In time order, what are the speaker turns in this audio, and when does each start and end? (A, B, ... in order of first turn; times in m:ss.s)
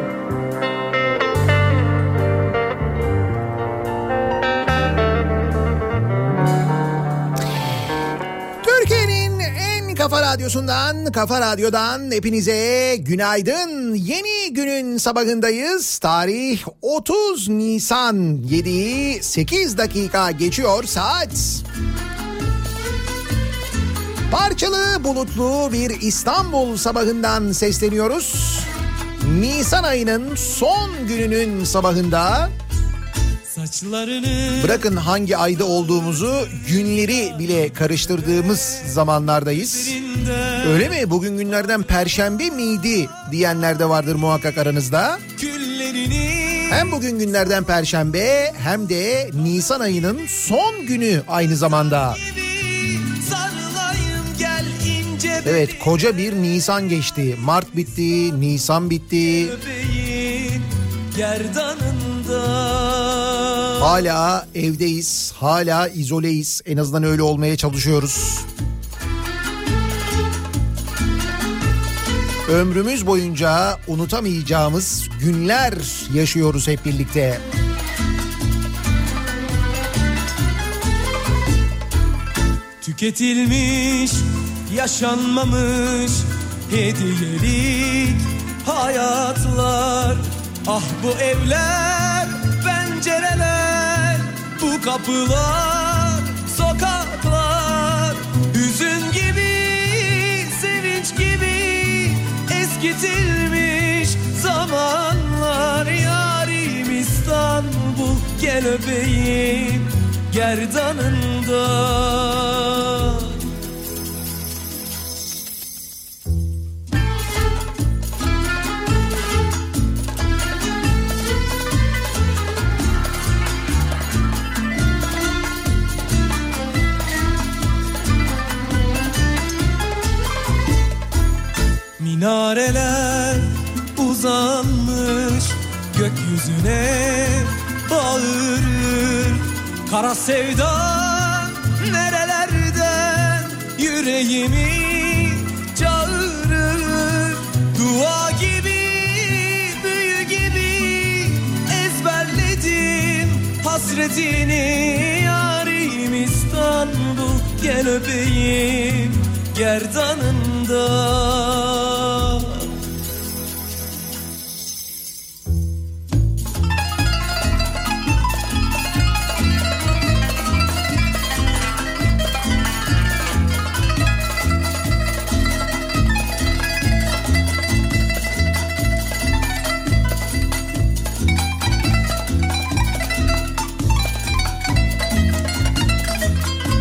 0:08.6-0:21.6 A
0:24.3-0:28.7 A
0:29.2-0:32.5 A
0:33.5-0:34.8 B
0:34.6-0:40.0 A
0:39.5-0:40.9 B
0:40.6-0:45.2 A
0:45.4-0:46.9 B
0:46.7-0:52.2 A
0:52.2-0:56.0 B
0:55.4-0:59.5 A
0:59.4-1:04.0 B
1:03.8-1:08.4 A
1:12.5-1:17.4 A
1:22.8-1:53.4 B
2:12.0-2:42.7 B